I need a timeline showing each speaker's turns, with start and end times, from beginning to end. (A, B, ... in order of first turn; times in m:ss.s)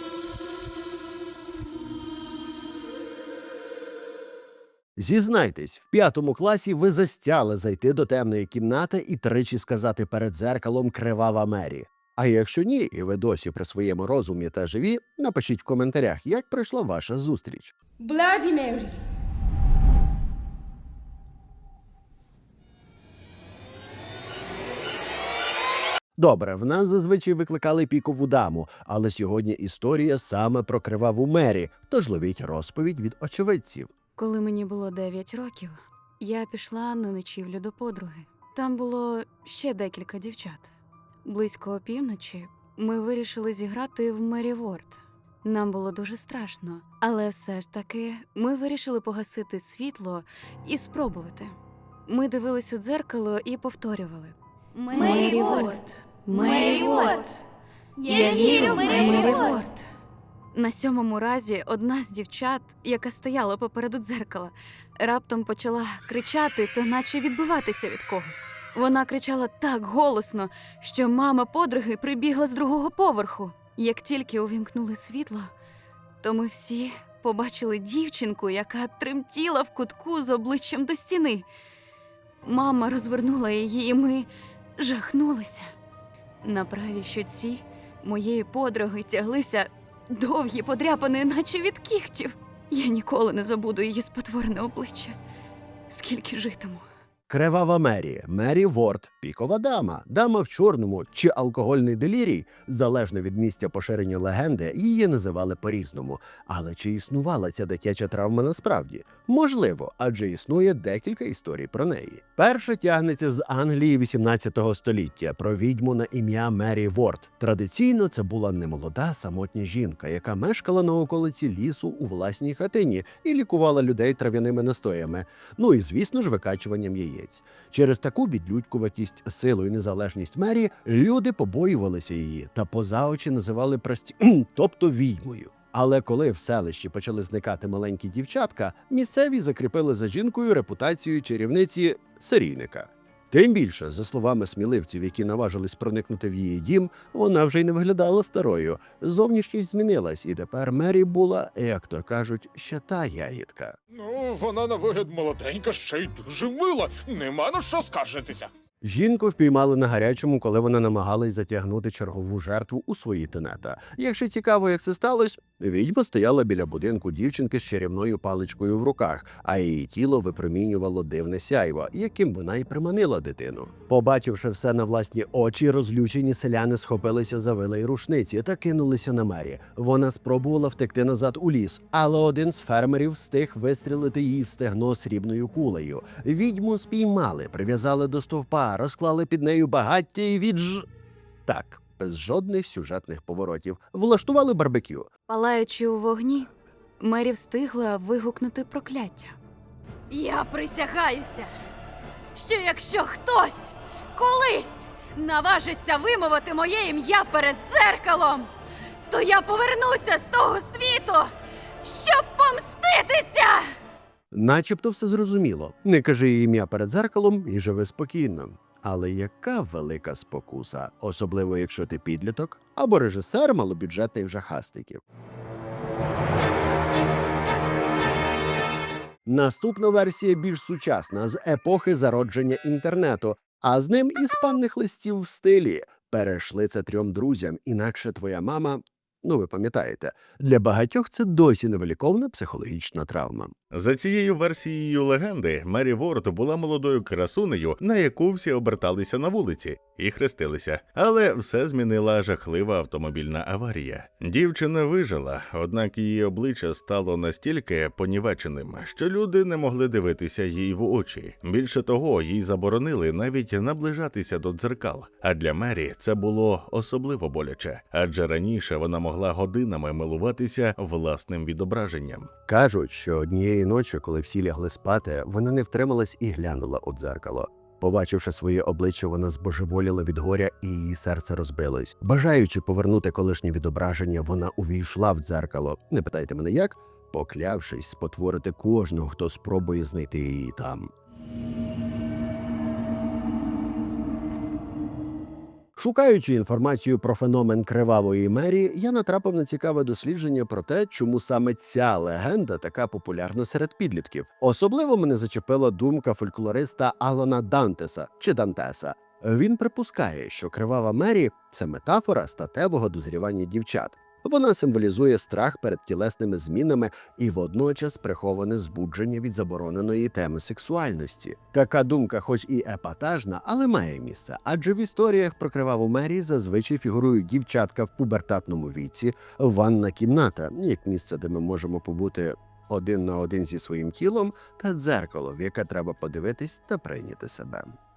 0:05.0-0:17.7 A
0:18.0-0:19.0 B
0:26.2-0:33.9 A
0:34.2-0:40.7 C
0:41.2-0:57.4 C
0:54.9-0:55.8 B
0:56.3-0:57.3 B
0:58.0-0:59.6 B
0:58.0-0:59.8 C
1:00.5-1:15.5 C
1:16.2-1:21.4 C
1:22.4-1:25.7 C
1:26.4-1:35.2 C
1:35.9-1:36.8 C
1:37.3-2:33.8 A
2:33.9-2:38.5 D
2:38.8-3:10.8 A
3:11.4-3:15.1 A
3:15.3-3:16.5 C
3:17.0-3:19.4 C
3:20.1-3:21.5 C
3:22.3-3:28.5 C
3:29.1-3:31.3 C
3:31.8-3:33.7 C
3:34.3-3:45.0 A
3:49.2-4:03.5 A
4:03.7-4:32.3 E
4:32.5-4:50.9 A
4:55.8-5:37.8 A